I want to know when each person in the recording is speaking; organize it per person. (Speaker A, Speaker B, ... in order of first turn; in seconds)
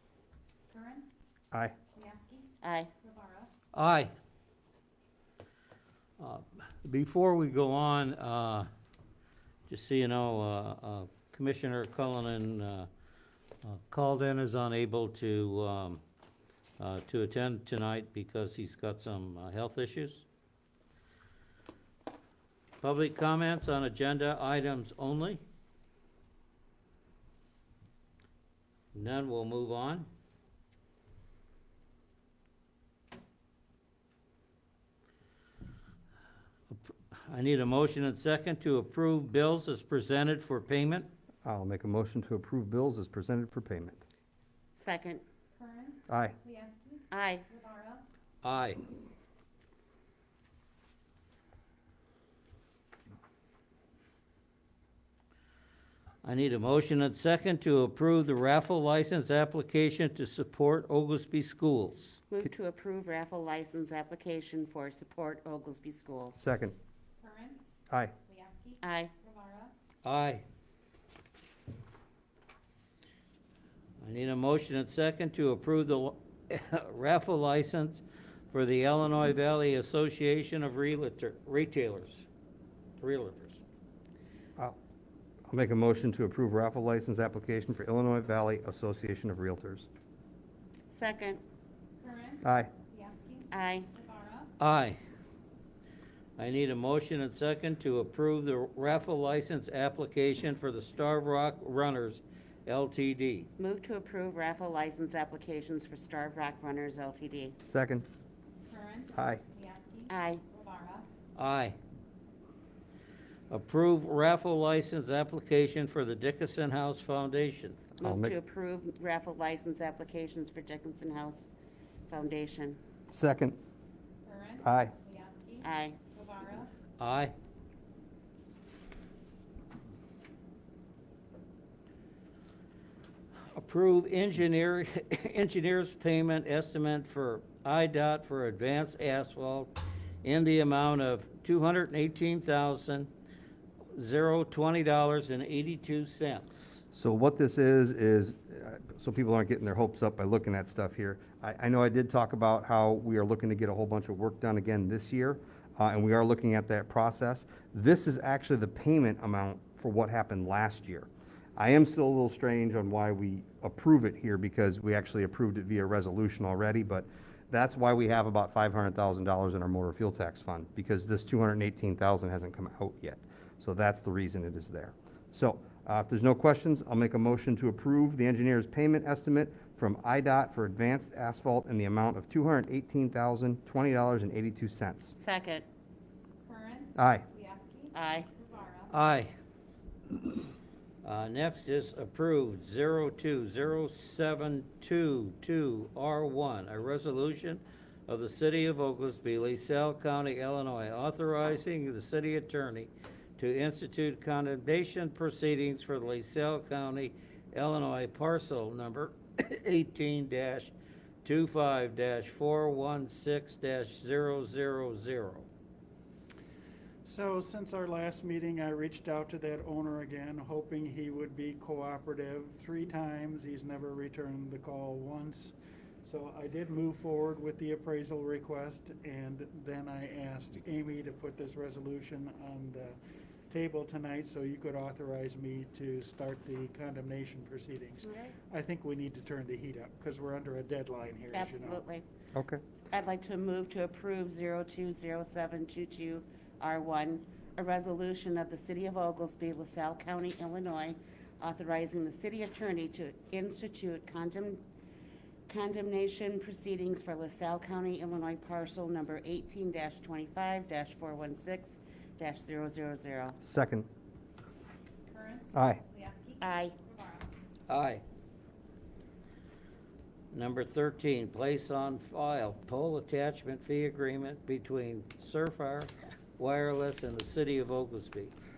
Speaker A: 0.7-1.1, 1.9-2.5, 3.0-3.5, 45.5-48.0, 67.2-67.6, 68.3-69.7, 92.0-94.5, 108.7-111.1, 124.2-126.7, 186.4-188.9, 265.1-267.3
Speaker B: 2.6-2.9, 44.8-45.2, 47.1-47.5, 62.3-66.4, 68.8-69.1, 90.9-91.4, 93.5-93.9, 103.6-107.6, 110.1-110.4, 118.0-121.5, 122.1-122.8, 125.6-126.0, 185.2-185.7, 187.9-188.3, 238.0-238.3, 241.3-242.0, 242.9-254.6, 255.5-263.4, 266.4-266.8
Speaker C: 3.7-4.1, 6.2-8.7, 9.7-12.9, 13.6-16.0, 16.8-20.2, 22.8-25.4, 28.9-30.1, 36.7-41.1, 48.4-48.8, 56.2-62.2, 70.0-70.4, 74.0-82.2, 83.0-83.6, 94.6-95.0, 96.4-103.5, 111.3-111.8, 113.5-117.8, 127.0-127.3, 133.5-139.7, 140.2-143.1, 143.9-146.8, 188.9-189.3, 191.0-210.7, 211.2-215.5, 267.7-268.0, 270.3-278.3
Speaker D: 41.5-44.0, 46.1-46.4, 66.4-66.8, 85.5-89.9, 92.4-92.7, 107.7-108.1, 109.1-109.4, 118.0-118.3, 123.1-123.6, 124.6-124.9, 146.9-185.1, 186.9-187.2, 242.3-242.6, 263.4-263.9, 265.5-265.8
Speaker E: 217.0-225.5, 226.0-233.0, 233.5-241.8